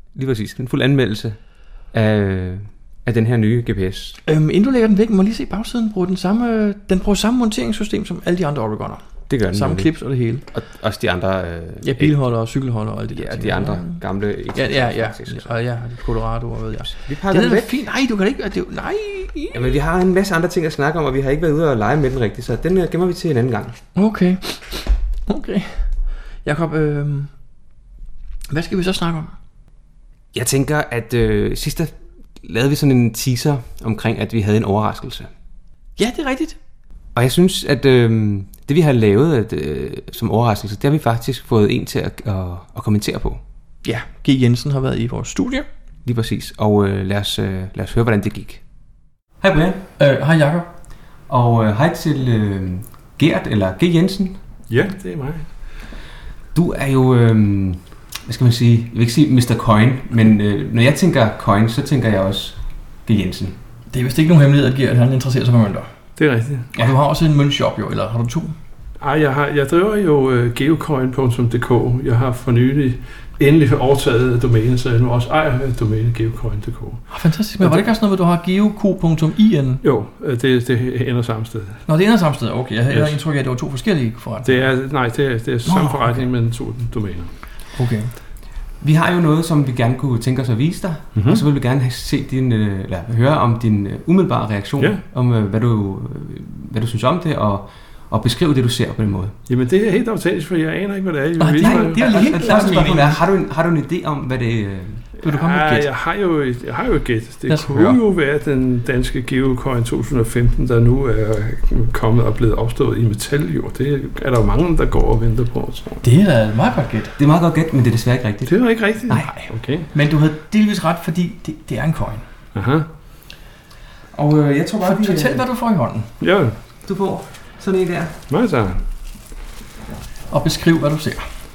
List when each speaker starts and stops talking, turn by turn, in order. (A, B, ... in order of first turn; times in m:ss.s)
0:00.1-0:04.2 A
0:04.2-0:10.5 B
0:09.3-0:15.9 A
0:11.8-0:19.7 B
0:16.8-0:17.8 A
0:19.5-0:23.8 A
0:24.0-0:27.3 B
0:28.5-0:29.3 B
0:30.3-0:35.3 A
0:36.0-0:36.6 B
0:37.1-0:43.4 A
0:43.8-0:45.6 B
0:46.0-0:48.6 A
0:49.4-0:49.9 A
0:50.0-0:50.7 B
0:51.2-0:54.4 A
0:54.7-0:55.7 C
0:56.5-1:03.6 A
1:03.9-1:05.9 B
1:06.2-1:06.7 C
1:06.8-1:08.5 B
1:09.0-1:17.9 C
1:17.1-1:19.8 B
1:19.8-1:21.9 C
1:21.9-1:25.0 B
1:22.9-1:23.2 C
1:24.4-1:27.3 C
1:25.6-1:26.3 B
1:27.7-1:28.1 B
1:28.8-1:39.4 A
1:31.1-1:31.4 C
1:34.8-1:35.0 C
1:39.5-1:43.0 C
1:41.4-1:43.2 B
1:41.6-1:45.2 A
1:45.2-1:56.0 C
1:45.2-1:45.9 B
1:47.5-1:48.0 B
1:56.0-1:57.2 B
1:57.2-1:59.3 A
1:58.4-1:59.9 C
1:59.2-2:02.2 B
2:02.5-2:02.9 C
2:04.1-2:05.5 A
2:04.8-2:06.1 B
2:06.2-2:06.5 C
2:06.8-2:08.2 A
2:08.3-2:08.8 C
2:10.3-2:11.3 B